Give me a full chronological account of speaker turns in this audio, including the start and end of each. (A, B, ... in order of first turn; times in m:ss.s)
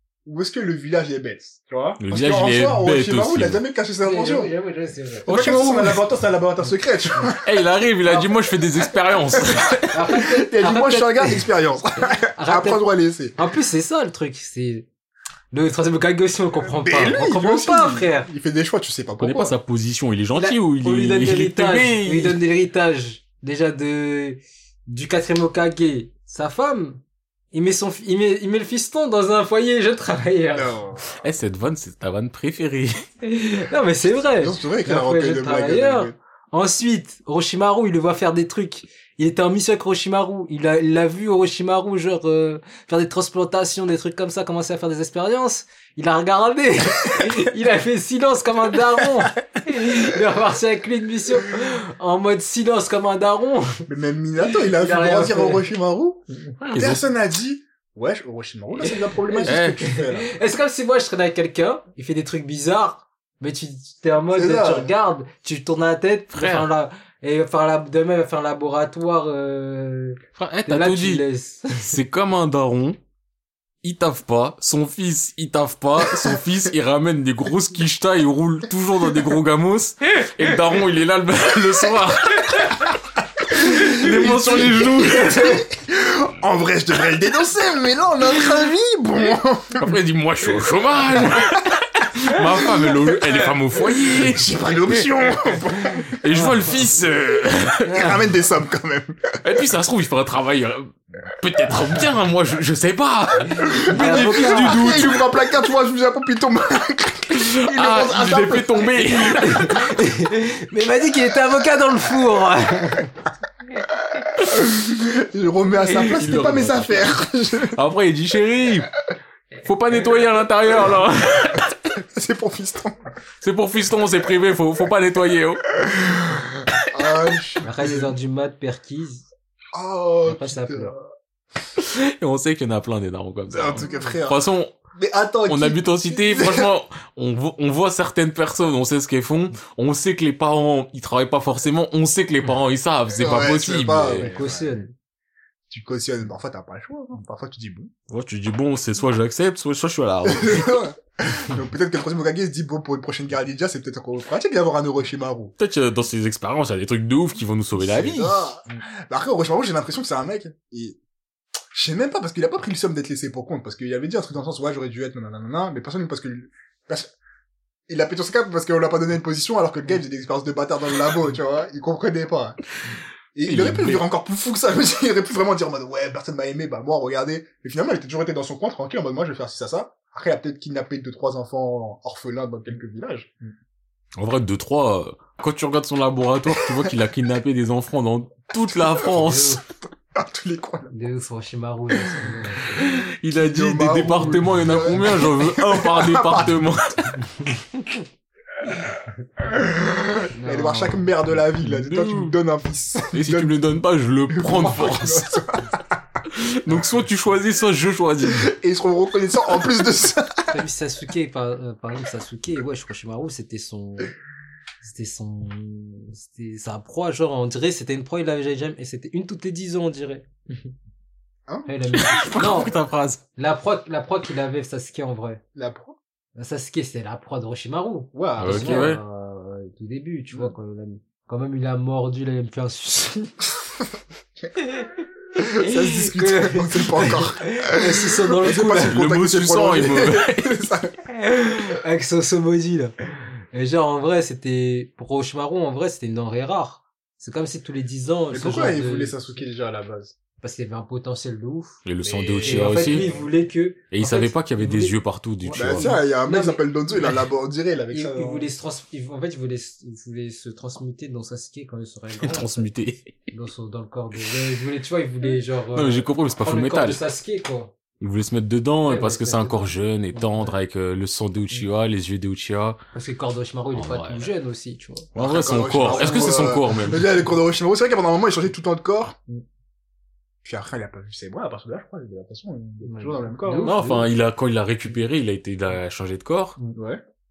0:00.3-0:04.5 A
0:02.0-0:03.6 B
0:04.0-0:05.3 C
0:05.3-0:06.1 B
0:05.3-0:07.6 A
0:07.4-0:10.0 B
0:08.9-0:13.4 A
0:09.9-0:11.5 C
0:12.0-0:12.8 C
0:13.4-0:14.9 C
0:15.5-0:18.3 C
0:16.6-0:19.5 A
0:19.2-0:22.4 B
0:20.4-0:30.8 C
0:30.5-0:31.2 A
0:31.2-0:33.0 B
0:33.2-0:53.9 C
0:34.2-0:36.2 A
0:53.9-1:00.3 A
0:54.4-0:55.7 C
0:56.6-0:57.0 B
0:58.8-1:12.0 C
0:59.4-0:59.8 B
1:04.4-1:04.9 A
1:06.3-1:06.7 B
1:10.4-1:13.0 B
1:13.8-1:22.9 B
1:23.5-1:25.7 B
1:23.5-1:30.0 A
1:29.8-1:35.1 B
1:32.4-1:36.1 A
1:36.1-1:38.2 B
1:36.3-1:36.8 C
1:37.9-1:39.3 A
1:39.4-1:45.3 B
1:43.6-1:49.6 A
1:43.9-1:45.1 C
1:47.4-1:49.9 B
1:49.3-1:53.1 C
1:54.0-1:57.8 A
1:56.0-1:58.9 B
1:59.6-2:01.7 B
2:01.9-2:03.0 A
2:03.4-2:05.7 B
2:05.8-2:08.1 A
2:07.6-2:09.3 C
2:09.7-2:11.0 A
2:10.2-2:10.9 C
2:11.8-2:14.8 B
2:13.5-2:14.4 A
2:15.0-2:16.7 A
2:15.5-2:24.3 B
2:23.1-2:24.8 A
2:24.2-2:24.9 C
2:25.7-2:27.9 A
2:28.1-2:30.8 B
2:30.2-2:35.5 A
2:35.6-2:38.5 B
2:37.8-2:41.0 A
2:41.7-2:47.1 A
2:47.9-2:52.6 A
2:53.4-3:03.4 A
2:53.5-2:54.0 B
3:04.2-3:09.6 B
3:06.5-3:07.0 A
3:08.7-3:09.4 A
3:09.1-3:09.6 C
3:10.0-3:10.9 A
3:10.9-3:12.9 C
3:12.8-3:17.8 B
3:13.3-3:16.7 A
3:19.4-3:23.6 A
3:20.3-3:21.1 C
3:21.6-3:22.4 B
3:23.1-3:25.3 B
3:24.3-3:25.8 A
3:26.3-3:28.5 B
3:28.2-3:30.6 A
3:30.5-3:34.1 C
3:34.8-3:40.7 C
3:41.5-3:42.6 A
3:41.7-3:42.8 C
3:41.9-3:43.2 B
3:43.4-3:45.4 C
3:45.6-3:46.0 A
3:46.4-3:53.4 C
3:48.1-3:49.0 A
3:48.4-3:49.0 B
3:54.6-3:54.9 C
3:55.4-4:00.9 A
3:55.5-3:59.0 C
3:58.8-4:00.6 B
4:01.2-4:02.9 C
4:03.5-4:09.2 C
4:08.3-4:10.2 A
4:10.4-4:11.8 C
4:11.8-4:13.1 B
4:12.0-4:13.3 A
4:12.4-4:17.2 C
4:13.9-4:16.0 B
4:15.6-4:18.5 A
4:17.9-4:22.7 C
4:22.2-4:23.2 B
4:23.3-4:27.7 C
4:25.7-4:27.0 B
4:28.0-4:32.8 B
4:28.8-4:30.5 C
4:32.9-4:35.1 C
4:33.8-4:34.3 B
4:35.2-4:37.1 B
4:35.2-4:39.2 A
4:35.8-4:36.5 C
4:40.4-4:43.8 A
4:42.8-4:44.1 C
4:43.6-4:46.6 B
4:46.8-4:47.0 A